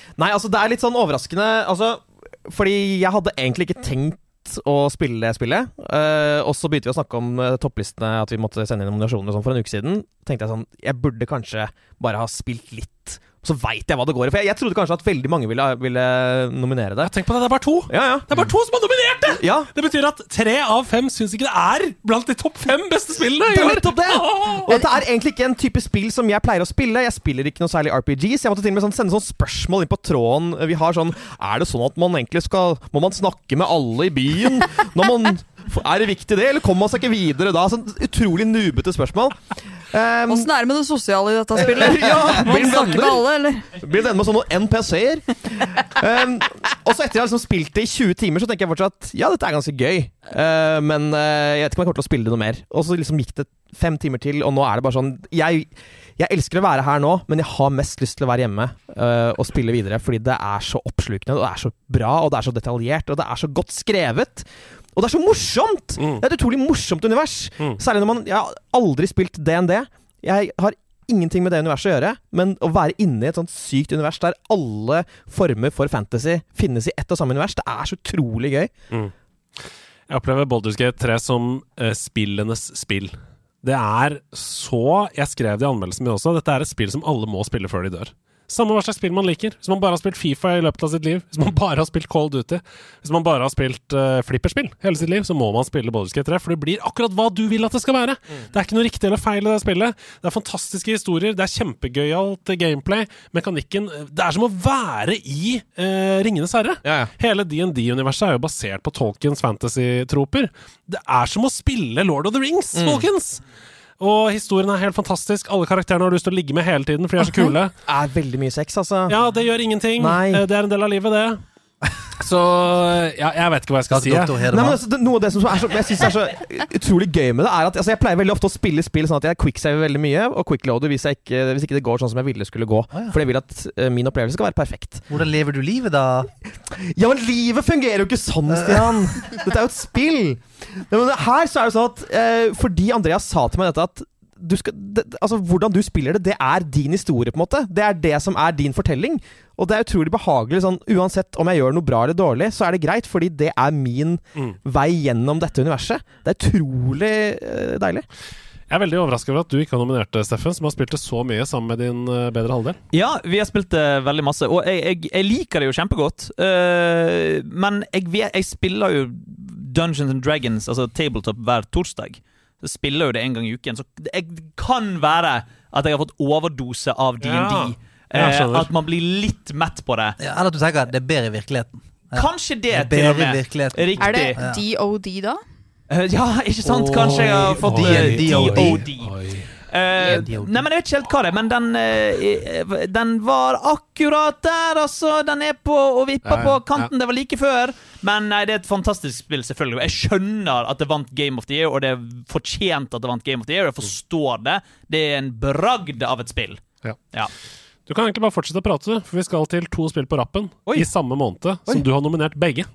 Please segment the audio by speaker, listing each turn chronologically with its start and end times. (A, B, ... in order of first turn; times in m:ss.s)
0:00.2-0:17.2 A
0:17.0-0:24.8 B
0:17.9-0:18.5 A
0:19.4-0:19.7 A
0:23.5-0:40.5 A
0:40.3-0:43.7 C
0:41.6-0:43.2 A
0:42.5-0:42.8 B
0:43.8-1:18.7 A
1:06.0-1:06.2 B
1:20.1-1:53.4 B
1:46.8-1:47.1 A
1:52.8-1:53.0 A
1:54.0-1:57.7 B
1:57.9-1:59.2 A
1:59.1-2:01.4 B
2:00.0-2:00.4 A
2:02.2-2:04.4 B
2:03.9-2:04.8 D
2:04.5-2:15.1 A
2:15.1-2:16.3 D
2:16.7-2:38.1 A
2:18.5-2:18.9 D
2:38.7-2:42.8 B
2:42.9-3:00.2 E
2:57.2-2:58.7 B
3:00.2-3:04.6 D
3:02.1-3:04.4 E
3:04.0-3:05.4 C
3:05.9-3:09.1 E
3:06.6-3:08.8 D
3:06.9-3:09.5 B
3:09.7-3:27.3 E
3:10.0-3:10.6 D
3:16.2-3:16.9 B
3:27.9-3:32.7 B